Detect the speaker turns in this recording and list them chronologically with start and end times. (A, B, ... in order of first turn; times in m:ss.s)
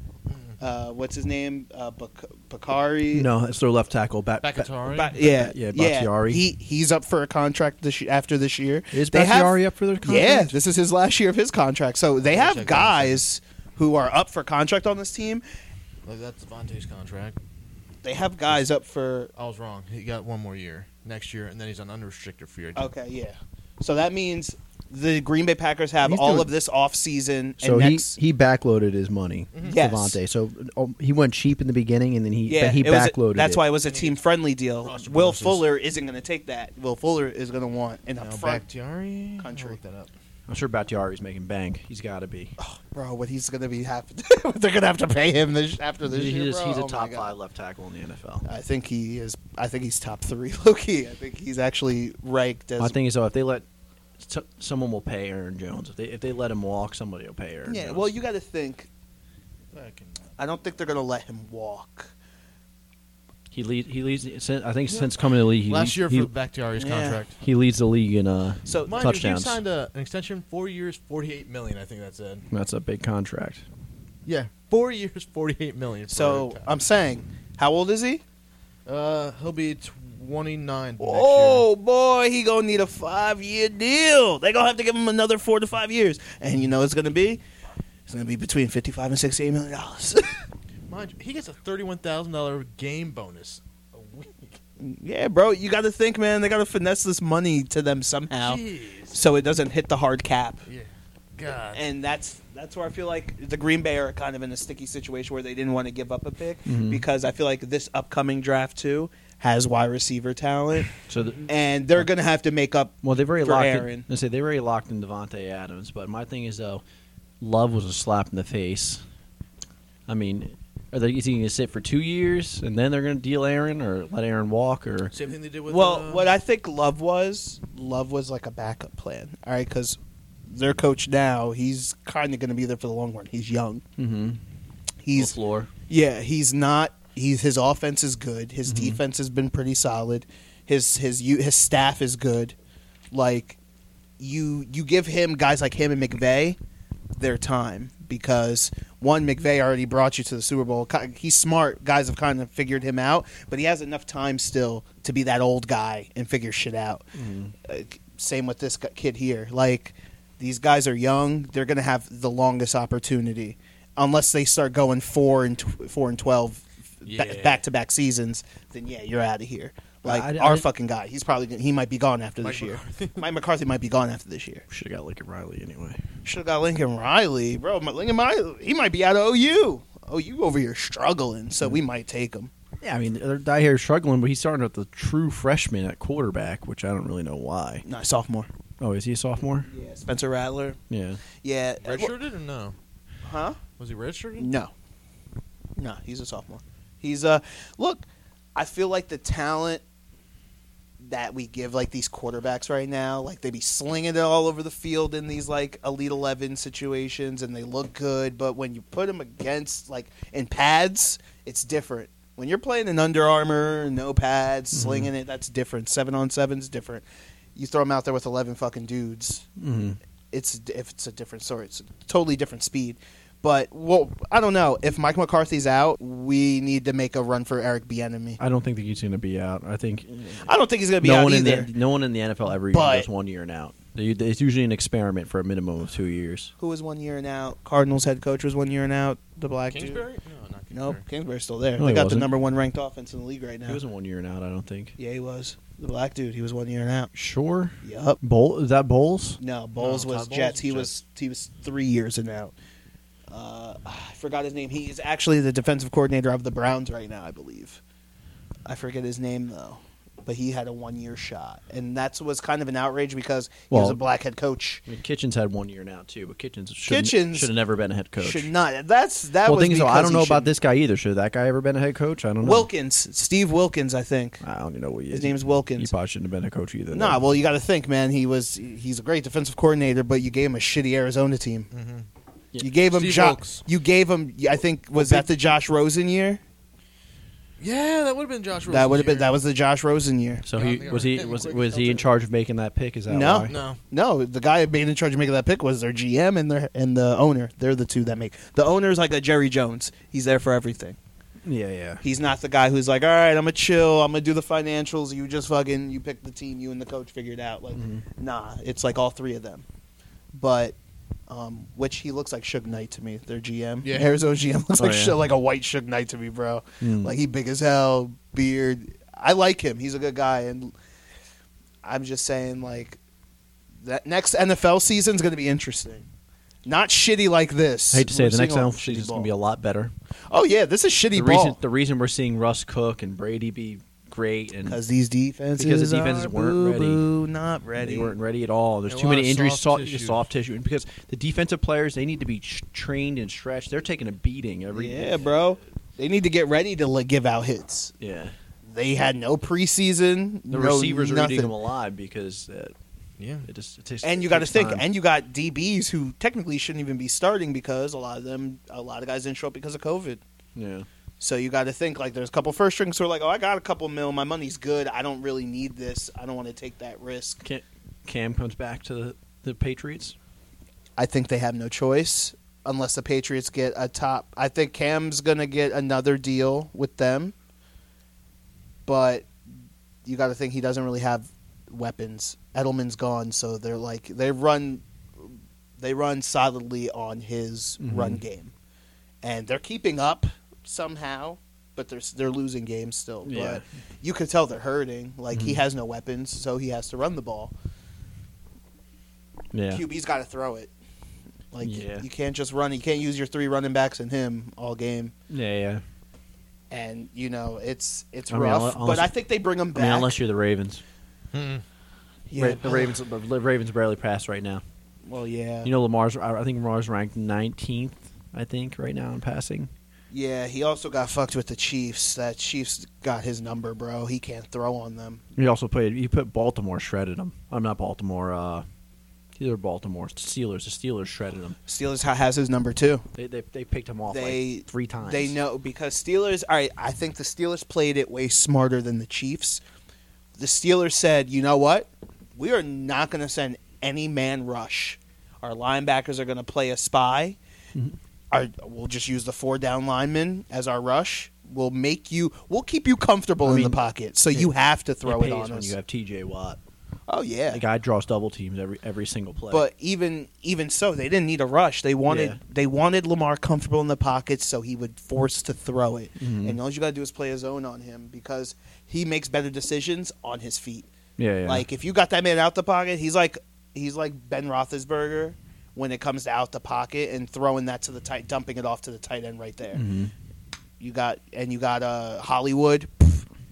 0:00.3-0:00.6 A
0:00.6-0:03.3 B
0:03.1-0:06.4 C
0:04.4-0:05.2 A
0:04.9-0:15.4 B
0:08.9-0:10.6 C
0:12.2-0:13.2 A
0:16.0-0:17.4 A
0:18.0-0:19.3 B
0:19.4-0:22.9 A
0:22.8-0:28.2 B
0:26.0-0:26.5 C
0:27.6-0:33.6 C
0:29.5-0:29.8 A
0:29.6-0:30.2 B
0:32.4-0:38.6 B
0:33.8-0:34.2 A
0:34.8-0:35.6 A
0:38.2-0:40.1 A
0:39.4-0:39.8 B
0:40.5-0:42.5 C
0:42.6-0:47.3 B
0:46.0-0:48.4 C
0:48.4-0:53.0 B
0:52.8-0:53.6 C
0:54.2-0:58.1 C
0:57.6-0:58.9 B
0:59.7-1:00.2 A
1:00.4-1:02.1 B
1:03.5-1:06.3 C
1:04.9-1:07.4 A
1:06.8-1:07.2 B
1:07.4-1:09.6 C
1:08.6-1:09.1 B
1:08.9-1:12.4 A
1:12.5-1:13.6 C
1:14.2-1:16.7 A
1:16.1-1:18.2 B
1:18.8-1:21.7 A
1:21.0-1:27.4 B
1:28.1-1:30.4 B
1:30.9-1:34.6 A
1:34.8-1:40.6 B
1:38.4-1:39.2 A
1:40.7-1:41.8 A
1:41.7-1:50.9 B
1:46.6-1:47.0 C
1:51.1-1:51.4 C
1:51.5-1:54.1 B
1:53.0-1:56.8 C
1:57.4-1:59.0 C
2:00.1-2:05.1 C
2:05.1-2:06.3 A
2:05.7-2:10.0 B
2:10.5-2:13.8 B
2:14.0-2:14.4 C
2:15.0-2:15.4 B
2:15.1-2:15.7 C
2:15.9-2:22.5 B
2:18.6-2:19.0 C
2:23.1-2:23.6 B
2:24.2-2:26.6 B
2:27.2-2:37.0 B
2:37.1-2:37.5 C
2:37.6-2:54.6 B
2:47.0-2:47.6 A
2:50.0-2:50.7 C
2:52.4-2:53.2 A
2:54.7-2:56.0 C
2:56.2-3:02.5 B
3:02.8-3:07.8 C
3:07.8-3:08.5 B
3:08.8-3:09.7 C
3:09.6-3:10.8 B
3:10.9-3:11.2 C
3:11.4-3:12.1 B
3:11.8-3:12.8 A
3:13.2-3:13.6 B
3:13.8-3:14.5 A
3:14.4-3:14.7 B
3:15.8-3:19.8 B
3:21.0-3:39.4 B
3:34.7-3:35.1 C
3:39.6-3:40.0 C
3:40.3-3:48.4 B
3:48.4-3:50.5 C
3:50.4-3:51.7 B
3:51.0-3:56.5 C
3:52.7-3:53.1 B
3:56.6-4:00.0 B
3:59.7-4:01.0 A
4:00.7-4:03.8 B
4:01.8-4:02.3 C
4:03.6-4:05.0 C
4:05.0-4:07.1 B
4:07.1-4:09.4 C
4:07.8-4:08.2 B
4:09.4-4:12.5 B
4:09.8-4:11.0 A
4:13.3-4:17.8 B
4:18.6-4:24.8 B
4:23.7-4:24.0 C
4:24.8-4:28.5 C
4:26.9-4:27.5 B
4:28.2-4:30.5 B
4:29.4-4:32.7 C
4:32.4-4:34.4 B
4:34.4-4:37.2 C
4:35.1-4:35.9 B
4:36.9-4:41.7 B
4:41.7-4:42.1 A
4:42.6-4:46.4 B
4:42.9-4:43.6 A
4:45.0-4:45.3 A
4:47.6-4:49.4 A
4:48.7-4:50.4 B
4:50.4-4:53.6 C
4:50.5-4:52.1 A
4:53.1-5:01.0 B
4:53.5-4:53.8 A
5:01.4-5:02.0 C
5:02.0-5:09.6 B
5:07.7-5:08.0 C
5:10.3-5:10.7 B
5:11.3-5:20.7 B
5:13.8-5:14.1 A
5:14.8-5:15.2 C
5:16.8-5:17.1 C
5:21.8-5:23.0 B
5:23.8-5:26.0 B
5:26.6-5:29.3 B
5:27.9-5:29.9 C
5:30.3-5:31.6 B
5:31.1-5:34.8 C
5:34.6-5:38.1 B
5:35.6-5:37.0 C
5:37.8-5:45.4 C
5:38.9-5:40.2 A
5:44.7-5:47.9 B
5:48.0-5:48.3 C
5:48.6-5:51.5 B
5:50.5-5:52.7 C
5:53.2-5:53.5 A
5:53.4-5:54.8 C
5:54.0-6:00.2 B
6:00.5-6:00.9 C
6:01.2-6:07.4 B
6:07.4-6:10.2 C
6:11.0-6:17.3 B
6:18.8-6:19.3 B
6:20.0-6:28.5 B
6:27.8-6:28.2 C
6:29.2-6:37.5 B
6:33.2-6:33.6 C
6:35.3-6:35.6 C
6:39.5-6:39.8 C
6:39.7-6:40.7 B
6:41.5-6:45.1 B
6:41.6-6:42.0 C
6:45.3-6:45.8 C
6:46.7-6:50.2 B
6:48.3-6:49.1 C
6:49.7-6:50.8 C
6:51.3-6:51.6 A
6:52.3-6:53.0 B
6:52.4-6:54.6 C
6:55.1-6:55.7 B
6:55.6-6:59.7 C
7:00.1-7:05.2 B
7:05.4-7:08.6 C
7:09.4-7:11.6 C
7:11.7-7:13.0 B
7:13.1-7:15.4 C
7:14.1-7:19.6 B
7:20.4-7:27.4 B
7:28.3-7:35.7 B
7:33.4-7:33.8 C
7:35.0-7:36.6 C
7:37.1-7:37.6 B
7:37.5-7:39.6 C
7:39.5-7:50.9 B
7:42.1-7:42.4 C
7:46.2-7:46.6 C
7:51.2-7:51.6 C
7:51.4-7:59.8 B
7:59.7-8:00.1 C
8:00.8-8:03.2 B